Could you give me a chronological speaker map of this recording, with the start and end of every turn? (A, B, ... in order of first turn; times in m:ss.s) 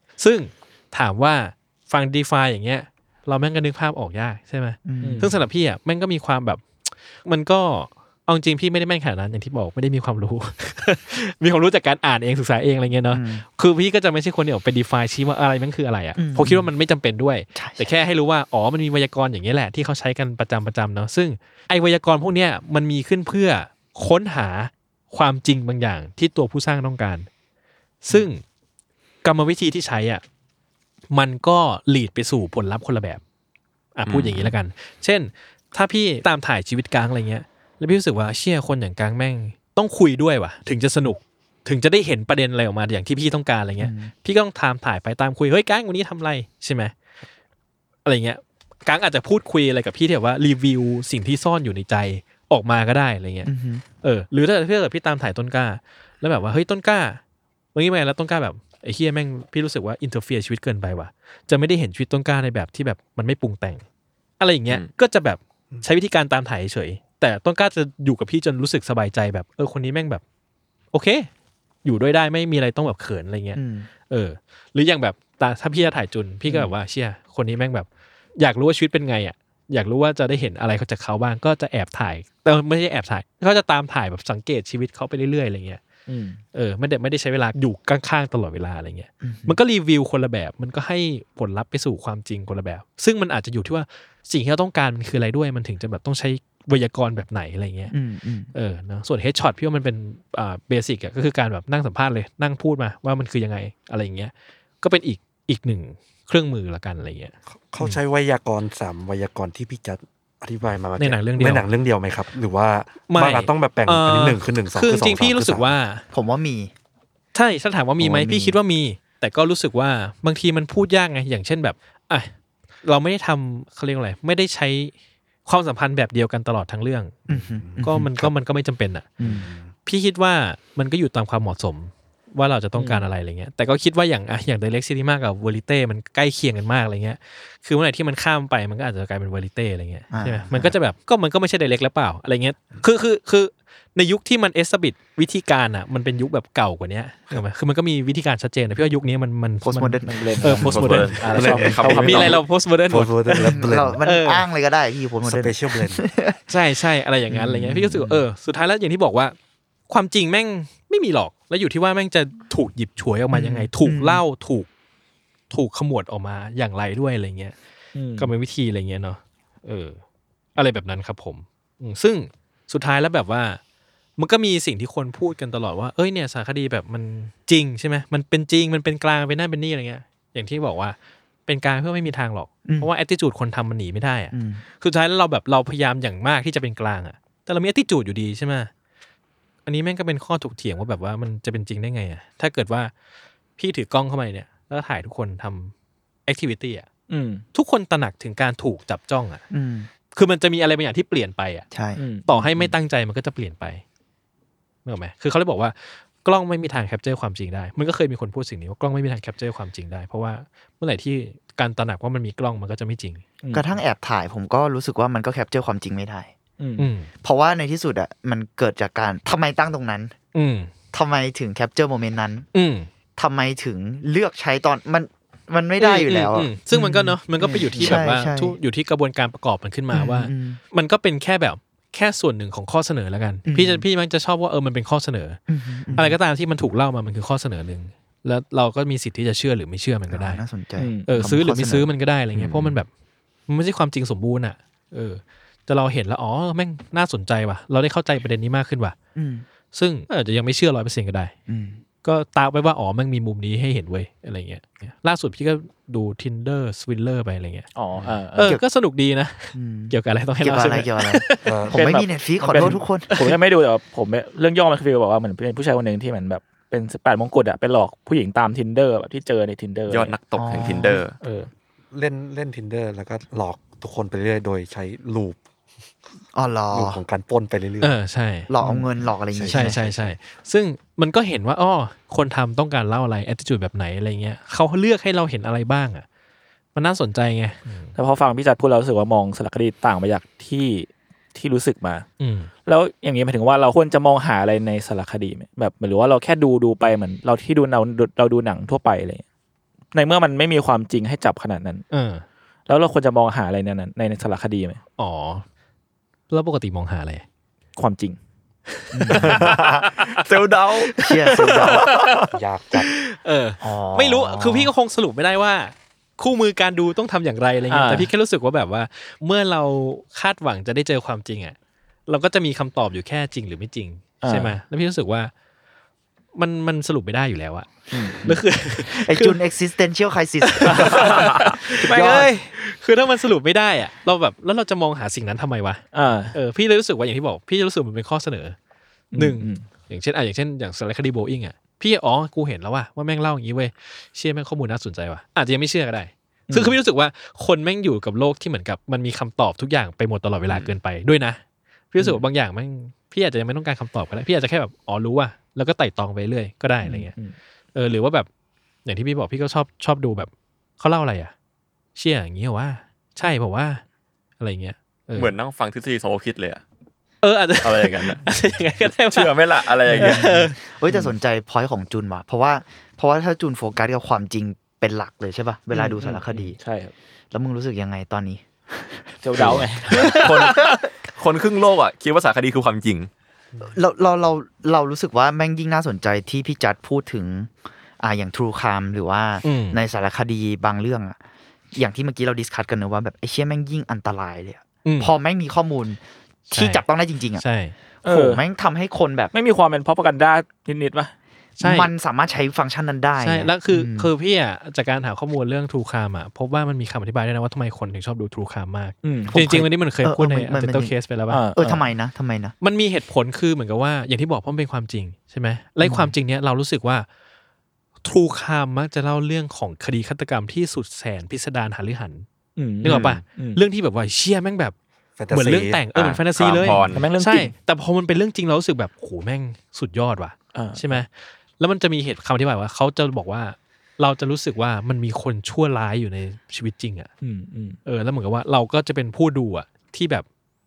0:00.2-0:27.3 A
0:04.9-0:05.3 B
0:05.0-0:05.3 C
0:13.1-0:13.4 B
0:16.2-0:16.7 B
0:17.6-0:17.9 B
0:28.0-0:28.4 A
0:29.2-0:30.2 A
0:31.1-0:33.2 A
0:34.0-0:46.9 A
0:34.1-0:34.5 D
0:43.8-0:44.1 B
0:48.1-0:53.5 A
0:53.5-0:53.8 B
0:54.0-0:57.2 A
0:57.8-1:03.8 A
1:04.4-1:10.2 A
1:10.9-1:11.3 A
1:11.8-1:25.8 A
1:13.6-1:13.9 B
1:16.5-1:16.7 C
1:26.1-1:26.4 C
1:26.5-1:37.9 A
1:29.2-1:29.6 B
1:37.9-1:38.5 B
1:38.5-1:48.0 A
1:47.5-1:55.7 E
1:51.0-1:51.7 A
1:53.1-1:56.0 A
1:56.1-1:56.7 B
1:57.3-2:02.3 A
1:58.0-1:58.6 B
2:02.8-2:04.9 A
2:05.5-2:07.2 A
2:07.3-2:08.1 E
2:07.3-2:08.3 B
2:07.8-2:09.1 A
2:09.2-2:09.5 B
2:09.2-2:09.7 E
2:09.9-2:34.5 A
2:12.8-2:13.1 C
2:20.1-2:20.8 B
2:29.6-2:31.0 B
2:30.1-2:32.4 C
2:30.6-2:32.4 D
2:31.3-2:34.0 E
2:33.4-2:36.4 B
2:35.2-2:36.0 E
2:36.5-2:39.4 A
2:37.3-2:38.2 B
2:39.9-2:44.7 A
2:43.3-2:44.2 B
2:45.5-2:47.6 A
2:48.0-2:48.3 C
2:48.2-2:50.0 A
2:50.6-2:53.6 A
2:54.2-3:08.7 A
3:02.7-3:02.9 B
3:04.3-3:04.6 B
3:09.7-3:12.9 A
3:13.6-3:15.7 A
3:16.3-3:16.9 A
3:17.1-3:17.4 C
3:17.5-3:19.4 A
3:19.5-3:19.9 B
3:20.1-3:21.7 A
3:21.7-3:22.0 B
3:22.0-3:22.5 C
3:22.3-3:23.8 A
3:24.8-3:33.2 A
3:33.4-3:33.8 C
3:33.5-3:36.3 B
3:36.6-3:36.9 C
3:36.8-3:37.1 A
3:37.2-3:40.1 B
3:40.3-3:40.7 A
3:40.9-3:42.5 B
3:42.5-3:42.9 A
3:43.2-3:48.6 B
3:45.8-3:55.4 A
3:47.4-3:48.0 C
3:49.9-3:50.6 B
3:53.5-3:53.8 B
3:55.5-3:56.2 B
3:56.0-4:00.4 A
4:00.1-4:01.9 B
4:00.8-4:01.2 C
4:01.0-4:02.9 A
4:03.5-4:09.0 A
4:09.2-4:09.5 B
4:09.7-4:11.3 A
4:11.5-4:11.8 B
4:12.0-4:17.7 A
4:17.8-4:18.5 C
4:18.3-4:21.6 A
4:19.5-4:23.2 B
4:21.4-4:21.8 E
4:21.7-4:30.2 C
4:22.5-4:22.8 E
4:23.1-4:23.4 A
4:29.9-4:31.2 D
4:30.3-4:31.0 B
4:31.2-4:31.5 C
4:31.9-4:35.4 E
4:36.3-4:37.0 B
4:36.7-4:37.9 E
4:37.8-4:38.5 A
4:38.5-4:40.2 B
4:38.6-4:39.9 E
4:39.5-4:46.0 A
4:46.8-4:47.9 A
4:48.0-4:52.1 C
4:52.2-4:52.5 A
4:52.7-4:59.2 C
4:59.9-5:01.8 C
5:01.9-5:02.2 A
5:02.7-5:04.8 C
5:05.0-5:05.4 A
5:06.3-5:07.2 A
5:07.8-5:08.2 C
5:08.8-5:10.2 A
5:08.9-5:09.6 B
5:09.2-5:12.1 D
5:10.9-5:12.3 A
5:11.0-5:11.9 B
5:12.3-5:12.9 E
5:12.9-5:21.6 A
5:13.6-5:14.7 B
5:17.7-5:18.1 C
5:22.1-5:25.3 A
5:24.2-5:24.6 C
5:26.4-5:29.4 A
5:27.9-5:28.4 C
5:28.8-5:32.3 B
5:30.4-5:38.6 A
5:30.6-5:32.3 C
5:35.9-5:36.4 C
5:39.1-5:39.6 C
5:39.2-5:51.4 A
5:46.5-5:46.8 C
5:50.5-5:50.7 D
5:51.9-5:57.2 A
5:52.0-5:52.2 C
5:56.8-5:57.4 C
5:57.8-5:58.3 A
5:58.8-6:01.3 A
6:02.0-6:03.8 A
6:04.4-6:05.3 A
6:05.2-6:06.6 D
6:07.2-6:10.6 A
6:07.6-6:08.3 D
6:08.8-6:10.2 D
6:09.9-6:16.6 B
6:15.7-6:16.9 C
6:17.3-6:20.8 B
6:19.2-6:20.2 C
6:19.4-6:23.1 D
6:19.9-6:20.6 A
6:23.6-6:31.2 B
6:29.4-6:29.8 A
6:31.7-6:37.4 B
6:34.8-6:35.1 A
6:36.5-6:36.8 A
6:37.4-6:37.7 A
6:38.0-6:38.4 C
6:38.0-6:39.3 B
6:39.3-6:41.1 C
6:41.6-6:41.9 A
6:41.6-6:44.1 B
6:43.2-6:51.4 A
6:49.0-6:49.4 C
6:49.3-6:50.9 B
6:51.3-6:51.8 C
6:51.6-6:52.6 B
6:52.6-6:57.1 A
6:55.8-6:56.1 B
6:58.0-7:02.3 A
7:02.6-7:03.6 C
7:02.8-7:04.8 A
7:02.8-7:03.2 D
7:05.2-7:05.8 E
7:05.3-7:17.1 A
7:06.0-7:07.1 D
7:06.9-7:07.5 C
7:10.5-7:11.0 C
7:17.2-7:17.8 C
7:17.8-7:20.2 A